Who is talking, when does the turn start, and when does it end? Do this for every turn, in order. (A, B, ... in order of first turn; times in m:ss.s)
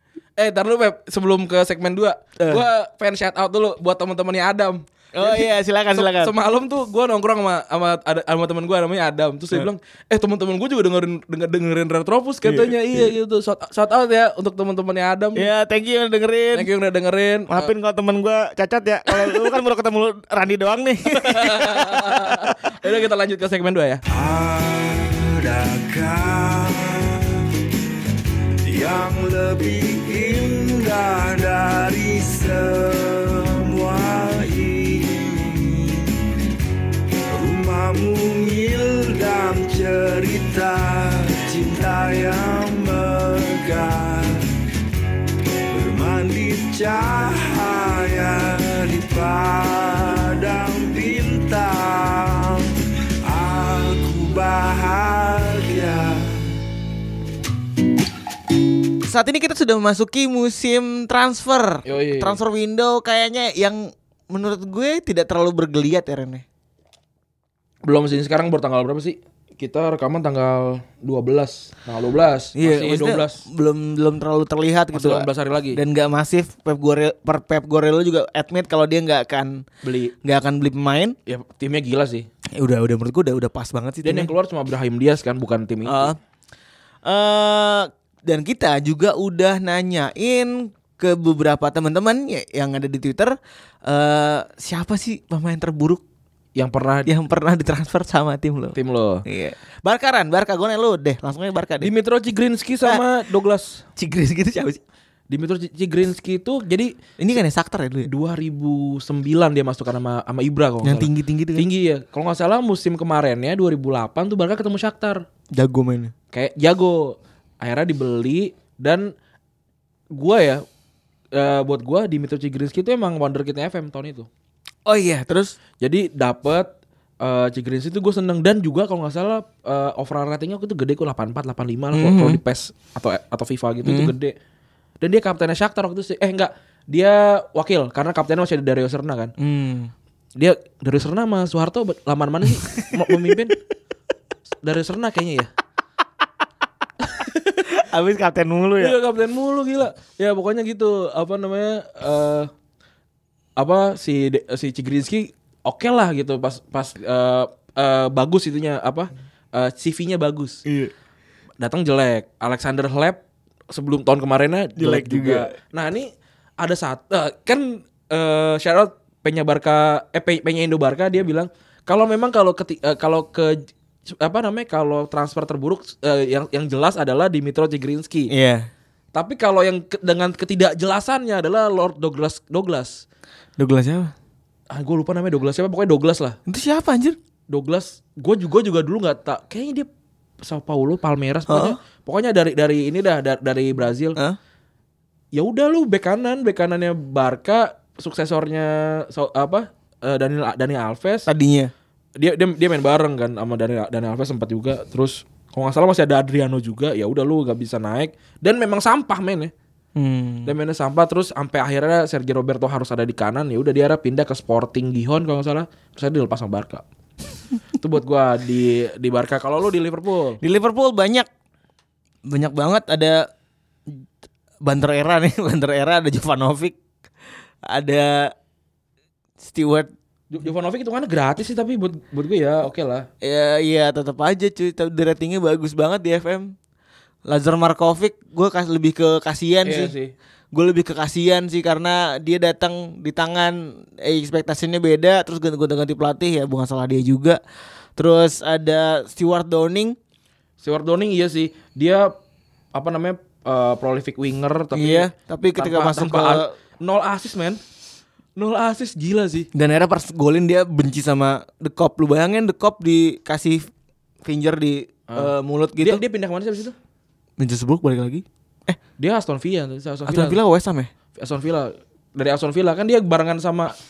0:00.4-0:15.5 A
0:02.4-0:02.6 B
0:05.2-0:06.3 B
0:12.4-0:13.1 B
0:15.4-0:16.7 B
0:16.5-0:17.7 A
0:17.5-0:22.6 B
0:19.1-0:19.4 A
0:21.1-0:24.0 A
0:24.1-0:27.5 C
0:28.6-0:36.3 C
0:37.3-0:44.5 C
0:45.7-0:56.5 C
0:59.0-1:06.4 B
1:01.8-1:02.4 A
1:07.8-1:13.4 A
1:12.6-1:19.7 B
1:14.9-1:15.8 A
1:19.8-1:20.2 A
1:20.2-1:21.2 B
1:21.3-1:22.3 A
1:22.6-1:24.3 B
1:24.0-1:26.2 A
1:25.8-1:26.2 B
1:27.0-1:36.0 B
1:36.6-1:37.1 A
1:37.1-1:41.9 B
1:38.8-1:39.2 A
1:41.8-1:43.8 A
1:44.0-1:44.8 B
1:45.3-1:46.9 A
1:47.2-1:48.1 B
1:48.1-1:55.2 A
1:50.8-1:51.7 B
1:55.5-1:56.1 B
1:56.3-1:59.1 A
2:00.1-2:00.6 A
2:01.3-2:04.3 A
2:04.9-2:05.6 B
2:05.8-2:14.4 A
2:11.9-2:12.4 B
2:13.8-2:14.1 B
2:15.0-2:19.3 A
2:19.4-2:19.9 B
2:20.4-2:23.6 A
2:22.6-2:23.4 B
2:24.6-2:25.5 A
2:27.0-2:27.8 A
2:27.7-2:29.0 B
2:28.8-2:32.5 A
2:33.6-2:40.6 A
2:40.7-2:40.9 B
2:41.6-2:58.3 A
2:44.8-2:45.5 B
2:58.3-2:58.7 B
2:59.1-3:03.0 A
3:03.6-3:04.1 B
3:04.7-3:06.4 A
3:06.5-3:07.2 B
3:07.5-3:09.9 A
3:10.4-3:14.2 A
3:11.5-3:11.8 B
3:15.3-3:21.3 A
3:21.3-3:21.7 B
3:22.2-3:29.5 A
3:30.0-3:30.5 B
3:30.5-3:36.8 A
3:37.8-3:40.4 A
3:40.4-3:41.3 B
3:42.3-3:43.3 B
3:44.6-3:46.8 B
3:47.7-3:48.3 B
3:49.4-3:49.9 B
3:50.3-3:53.1 A
3:53.2-3:56.5 B
3:57.3-3:59.9 B
3:59.6-4:00.1 A
4:00.5-4:07.4 B
4:08.0-4:10.0 B
4:10.6-4:12.1 A
4:12.7-4:17.6 A
4:14.7-4:16.5 B
4:18.4-4:19.5 A
4:19.5-4:23.7 B
4:24.2-4:26.0 B
4:25.1-4:26.8 A
4:27.4-4:28.8 B
4:29.0-4:30.4 A
4:30.1-4:30.9 B
4:31.2-4:33.7 A